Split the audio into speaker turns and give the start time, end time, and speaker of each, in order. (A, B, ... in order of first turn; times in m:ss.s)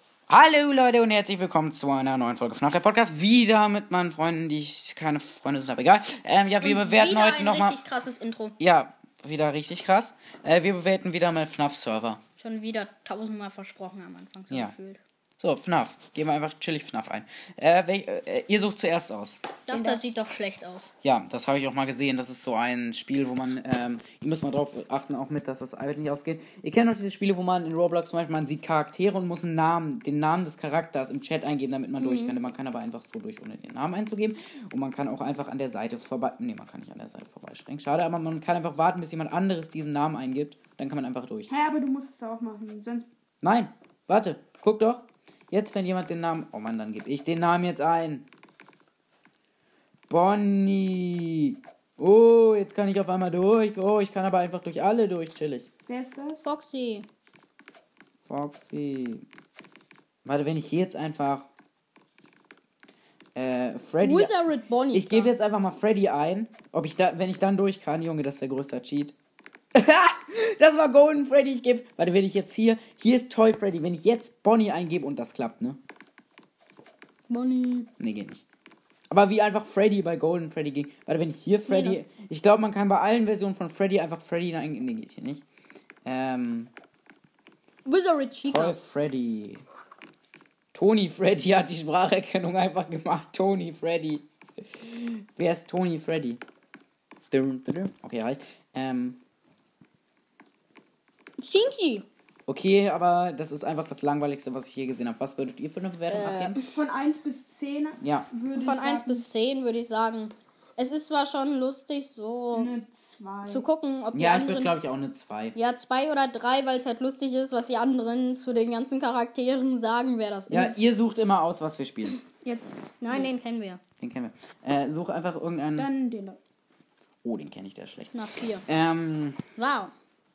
0:00.3-0:07.8 A
0:06.6-0:08.6 B
0:08.6-0:12.2 A
0:12.4-0:15.0 B
0:15.4-0:19.4 A
0:19.7-0:20.9 B
0:19.7-0:20.0 C
0:21.0-0:41.5 A
0:32.0-0:32.4 B
0:41.5-0:43.1 C
0:43.4-0:48.3 A
0:50.1-0:55.7 A
0:55.9-0:56.4 C
0:56.4-0:57.1 B
0:58.3-0:59.3 A
1:00.2-1:01.5 A
1:03.4-1:04.4 A
1:04.0-1:05.3 B
1:04.9-1:09.1 A
1:09.7-1:15.8 A
1:17.3-1:17.9 B
1:18.0-1:18.4 A
1:19.1-1:25.4 A
1:21.7-1:22.0 B
1:26.0-1:26.7 A
1:27.8-1:28.8 B
1:28.5-1:29.6 A
1:30.7-1:36.4 A
1:37.3-1:39.2 A
1:41.4-1:42.1 B
1:42.5-1:46.6 A
1:46.1-1:46.8 B
1:46.7-1:49.3 C
1:48.0-1:48.3 A
1:48.6-1:52.7 B
1:52.5-1:53.6 C
1:53.5-1:54.7 B
1:54.1-1:55.6 A
1:55.6-2:00.9 B
2:00.5-2:02.2 A
2:02.4-2:03.3 C
2:03.0-2:03.8 B
2:04.0-2:05.9 A
2:05.8-2:06.4 C
2:07.2-2:08.1 A
2:08.1-2:08.7 B
2:08.7-2:09.4 A
2:09.6-2:09.9 B